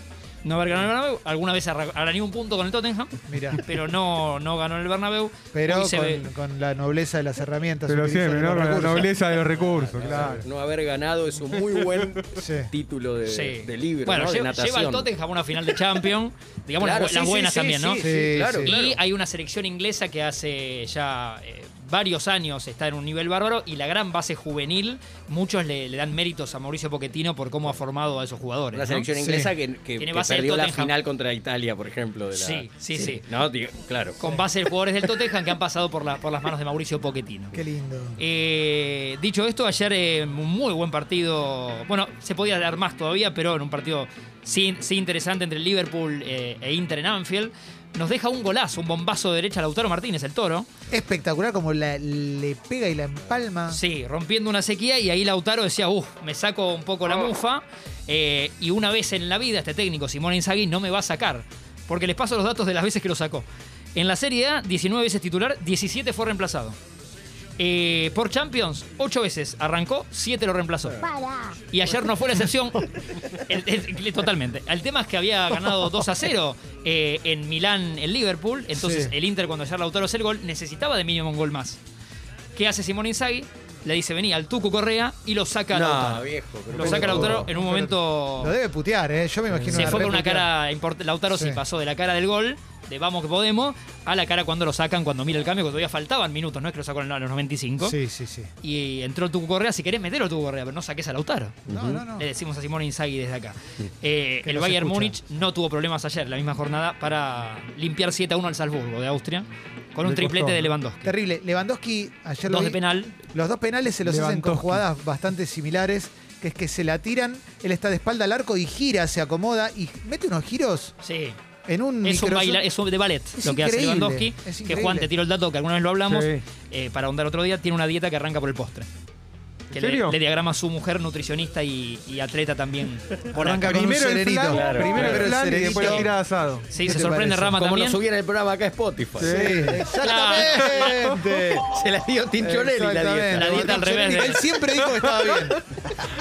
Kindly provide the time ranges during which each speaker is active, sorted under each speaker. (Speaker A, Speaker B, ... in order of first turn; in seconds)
Speaker A: 0.4-6.3, 13.3-18.1, 18.6-29.1, 30.0-30.9, 32.4-33.3, 34.2-37.6, 38.2-50.7, 53.7-66.8, 67.6-71.0, 71.7-81.8, 82.6-88.6, 89.7-98.0, 98.6-101.6, 102.2-111.1, 112.5-113.2, 121.0-121.4, 122.0-128.9, 129.7-133.9, 136.7-138.0, 140.0-141.0, 143.3-144.4
Speaker B: 3.3-3.6, 5.5-9.2, 10.1-10.4, 12.3-12.7, 18.0-18.8, 29.2-29.5, 37.5-38.2, 50.9-53.8, 78.7-79.1, 86.7-90.5, 91.3-91.6, 97.8-98.5, 101.7-102.3, 104.4-105.2, 111.0-121.0, 121.7-122.6, 123.3-125.1, 133.3-136.1, 136.8-137.6, 139.2-141.7, 142.4-145.6
Speaker C: 7.9-10.5, 110.0-110.8, 114.0-114.8, 126.1-126.4, 129.7-130.2, 133.4-136.7, 139.2-139.9
Speaker D: 9.5-15.1, 16.8-19.0, 28.7-34.4, 85.7-87.5, 89.5-90.1, 101.7-102.0, 134.5-135.4, 137.6-139.8, 140.4-143.8, 144.8-145.4